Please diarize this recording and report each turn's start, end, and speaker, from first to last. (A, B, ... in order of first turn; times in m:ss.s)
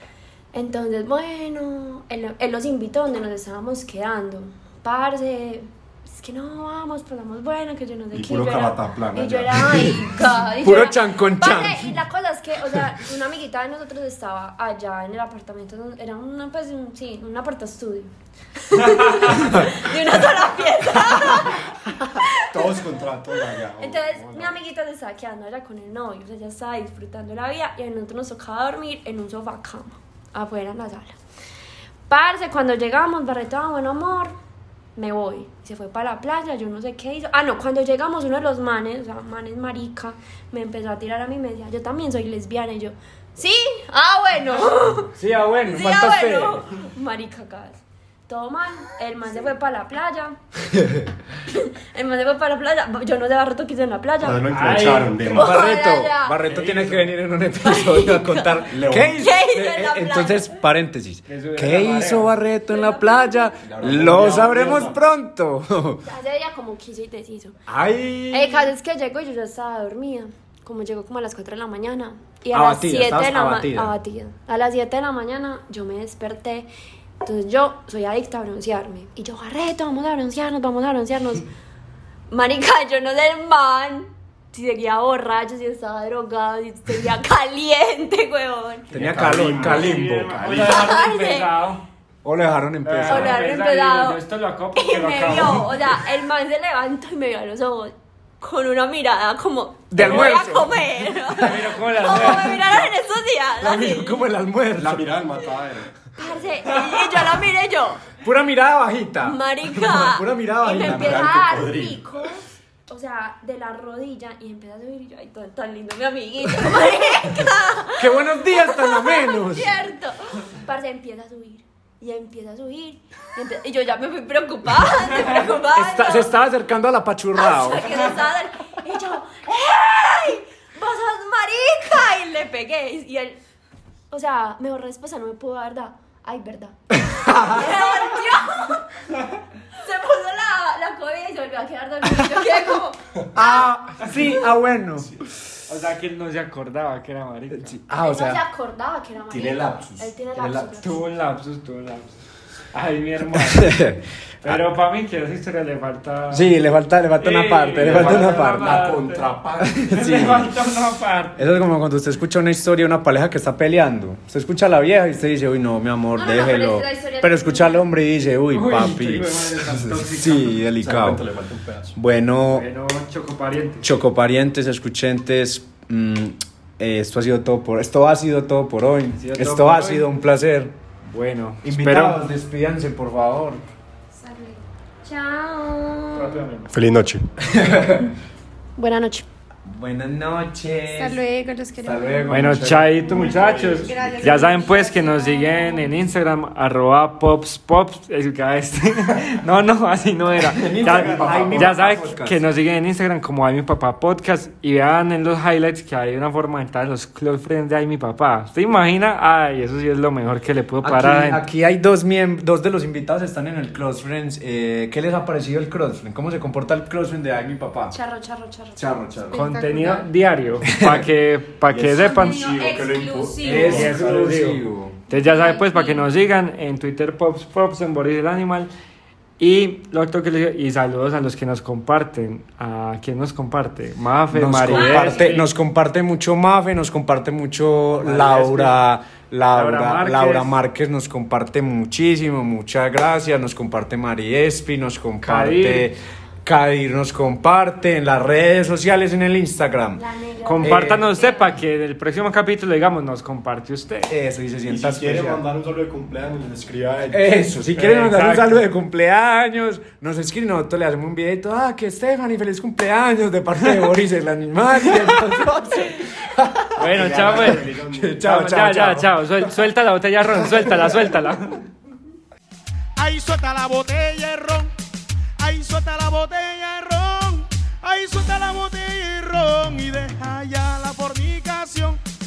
0:00.5-0:22.7 A
0:08.1-0:10.1 B
0:10.6-0:12.0 C
0:22.5-0:24.6 B
0:23.8-0:31.2 A
0:32.1-0:34.3 A
0:35.0-0:45.1 A
0:45.1-0:46.6 C
0:45.6-0:50.4 A
0:50.7-0:51.0 C
0:51.4-0:54.5 A
0:54.2-0:55.7 B
0:54.5-0:55.4 D
0:55.3-0:56.4 A
0:55.3-1:06.0 C
0:56.4-0:57.1 D
0:57.6-1:00.5 A
0:58.7-0:59.2 B
1:01.3-1:02.4 D
1:02.7-1:03.6 A
1:03.6-1:05.0 B
1:06.0-1:07.6 A
1:07.7-1:08.7 C
1:08.3-1:16.7 A
1:12.5-1:13.9 C
1:17.2-1:21.5 A
1:22.3-1:28.9 A
1:28.9-1:30.4 C
1:28.9-1:31.0 B
1:29.2-1:31.8 D
1:30.5-1:31.6 A
1:32.2-1:33.5 C
1:32.8-1:35.8 D
1:33.0-1:34.2 A
1:34.7-1:44.2 A
1:39.9-1:42.6 C
1:40.0-1:40.7 D
1:41.3-1:42.8 D
1:43.6-1:45.1 C
1:44.8-1:45.9 B
1:46.2-1:48.0 A
1:48.2-1:51.3 C
1:49.2-2:06.4 A
1:50.8-1:52.1 B
1:58.0-1:59.8 C
2:05.7-2:08.0 C
2:07.4-2:13.4 A
2:14.1-2:18.9 A
2:16.9-2:17.8 C
2:19.8-2:23.6 A
2:23.3-2:25.2 C
2:25.0-2:25.2 B
2:25.7-2:27.8 D
2:27.5-2:28.4 C
2:27.9-2:31.0 A
2:29.3-2:30.6 B
2:30.4-2:30.9 C
2:30.8-2:32.2 D
2:32.7-2:33.9 D
2:33.5-2:34.6 C
2:34.4-2:36.5 D
2:36.3-2:38.7 C
2:37.2-2:39.3 D
2:37.8-2:40.5 B
2:39.7-2:40.5 C
2:39.8-2:41.5 D
2:41.4-2:51.2 C
2:46.2-2:47.9 A
2:48.5-2:50.6 D
2:50.8-2:52.0 B
2:51.9-2:52.7 C
2:52.5-2:53.9 D
2:53.8-3:00.7 C
2:59.2-3:00.1 D
3:01.1-3:02.2 D
3:01.6-3:03.6 C
3:04.1-3:04.6 E
3:05.0-3:06.5 A
3:06.1-3:06.7 D
3:06.7-3:07.4 B
3:07.4-3:08.1 C
3:08.8-3:09.2 A
3:09.6-3:11.2 C
3:10.9-3:15.9 E
3:11.8-3:13.0 C
3:12.3-3:31.4 D
3:12.9-3:14.6 B
3:20.5-3:22.4 C
3:20.8-3:21.8 B
3:30.8-3:38.0 C
3:37.9-3:38.8 A
3:38.8-3:39.4 C
3:39.3-3:40.1 E
3:39.3-3:42.6 D
3:40.7-3:41.0 C
3:41.7-3:43.9 B
3:42.0-3:44.0 E
3:43.4-3:45.0 C
3:43.4-3:48.7 D
3:45.1-3:45.9 A
3:45.5-3:45.9 E
3:49.4-3:55.5 D
3:54.3-4:10.0 C
3:54.7-3:55.4 E
3:58.0-3:58.8 D
3:59.5-4:00.6 D
4:05.2-4:05.9 D
4:10.0-4:11.6 A
4:10.4-4:14.1 D
4:10.6-4:11.0 C
4:14.1-4:15.4 C
4:14.7-4:17.5 B
4:17.1-4:29.5 C
4:17.7-4:18.6 D
4:26.8-4:31.6 D
4:26.8-4:28.2 B
4:33.0-4:34.7 F
4:35.4-4:42.0 F